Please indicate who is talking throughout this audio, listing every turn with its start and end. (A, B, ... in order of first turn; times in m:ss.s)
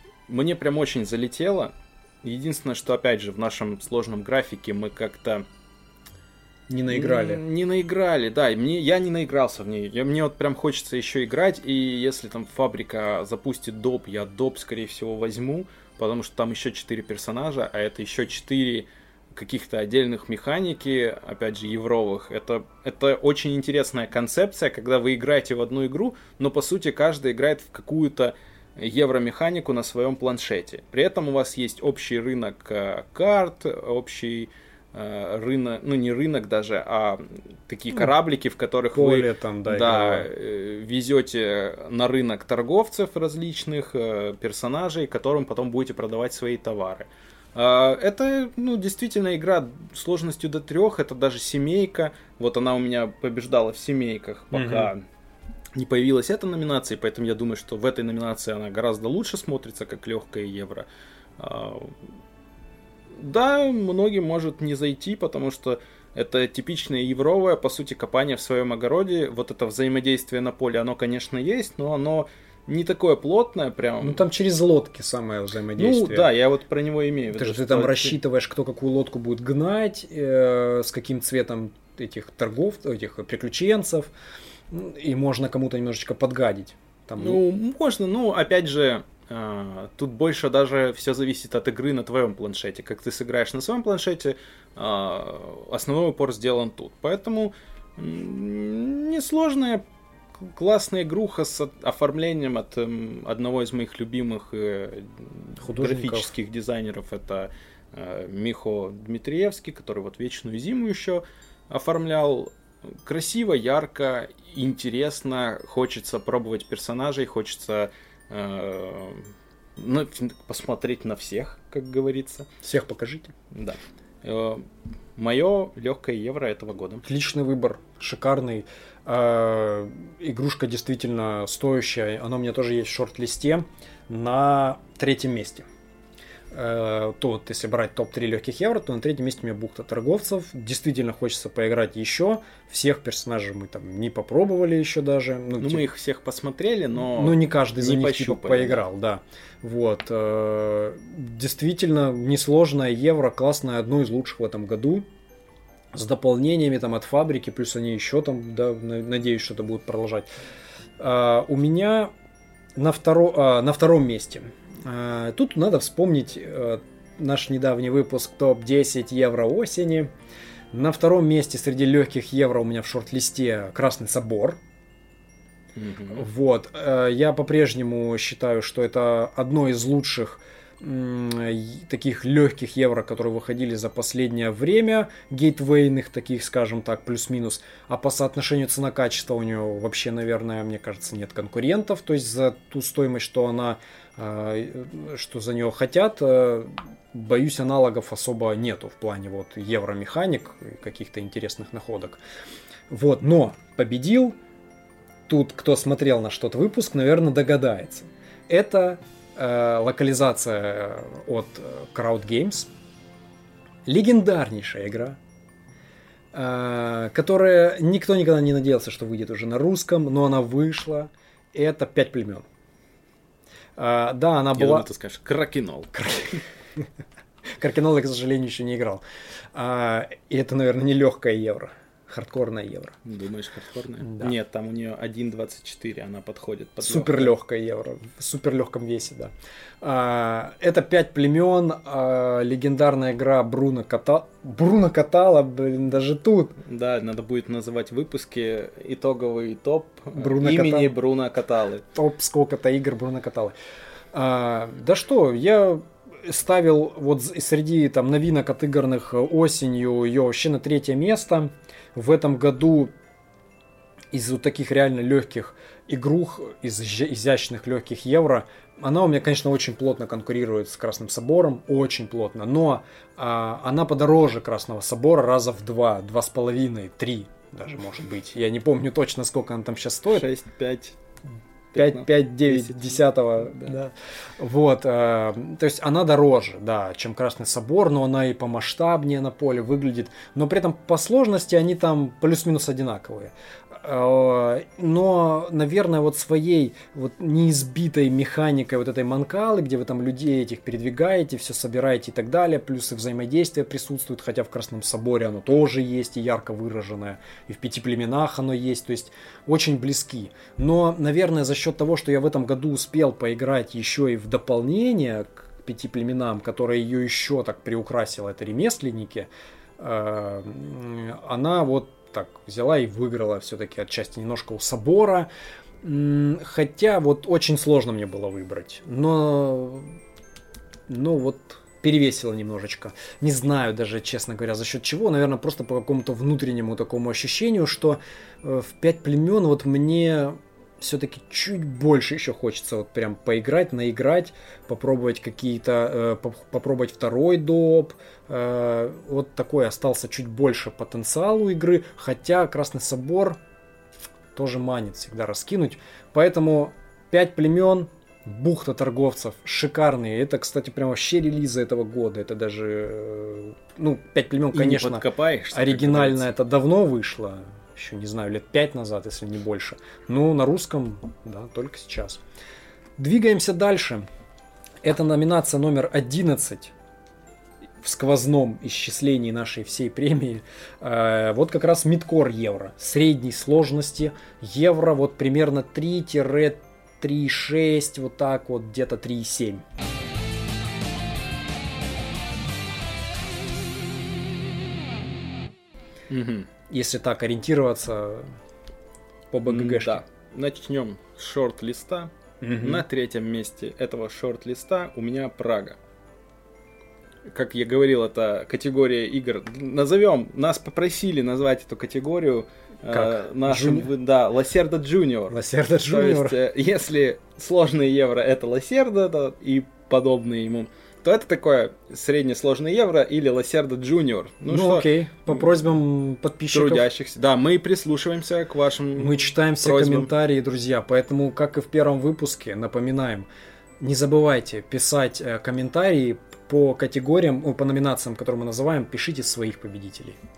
0:00.3-0:05.4 A
0:06.7-0:07.4 B
0:06.9-0:55.0 A
0:38.9-0:40.3 B
0:54.5-0:54.9 B
0:55.8-1:00.9 A
1:01.4-1:02.0 A
1:03.2-1:14.2 A
1:14.0-1:16.3 B
1:15.8-1:18.2 A
1:17.3-1:24.1 B
1:24.7-1:27.4 B
1:27.2-1:39.8 A
1:40.5-1:52.5 A
1:45.6-1:46.3 B
1:53.0-2:02.5 A
2:02.6-2:03.3 B
2:03.5-2:04.7 A
2:05.2-2:07.0 A
2:07.0-2:15.7 B
2:16.5-2:25.8 B
2:25.6-2:28.8 A
2:27.0-2:35.1 B
2:35.9-2:40.3 B
2:41.0-2:42.1 B
2:42.8-2:50.1 B
2:50.7-2:54.6 B
2:55.8-2:56.3 A
2:56.1-3:22.2 B
3:22.9-3:24.4 B
3:25.3-3:32.7 B
3:33.9-3:35.2 B
3:36.3-3:42.5 B
3:43.8-3:44.9 B
3:44.6-3:46.4 A
3:46.0-3:46.4 B
3:47.5-3:49.0 B
3:49.5-3:53.0 B
3:53.0-3:57.3 A
3:54.1-3:54.3 B
3:56.8-4:06.6 B
4:06.6-4:11.8 A
4:10.2-4:10.9 B
4:12.0-4:13.6 B
4:14.1-4:22.9 B
4:24.1-4:40.3 B
4:40.1-4:41.0 A
4:41.7-4:43.8 A
4:41.8-5:25.3 B
5:25.8-5:29.9 B
5:30.9-5:53.4 B
5:54.4-6:12.2 B
6:04.5-6:06.3 A
6:13.0-6:14.0 B
6:14.8-6:16.7 B
6:17.8-6:29.6 B
6:36.1-6:36.5 A
6:36.7-6:38.3 B
6:39.3-6:40.0 B
6:39.5-6:45.8 A
6:42.4-6:42.8 B
6:47.3-7:05.4 A
6:52.9-6:53.9 B
6:55.3-6:56.4 B
7:04.5-7:06.9 B
7:06.5-7:10.1 A
7:09.0-7:13.3 B
7:13.8-7:20.2 B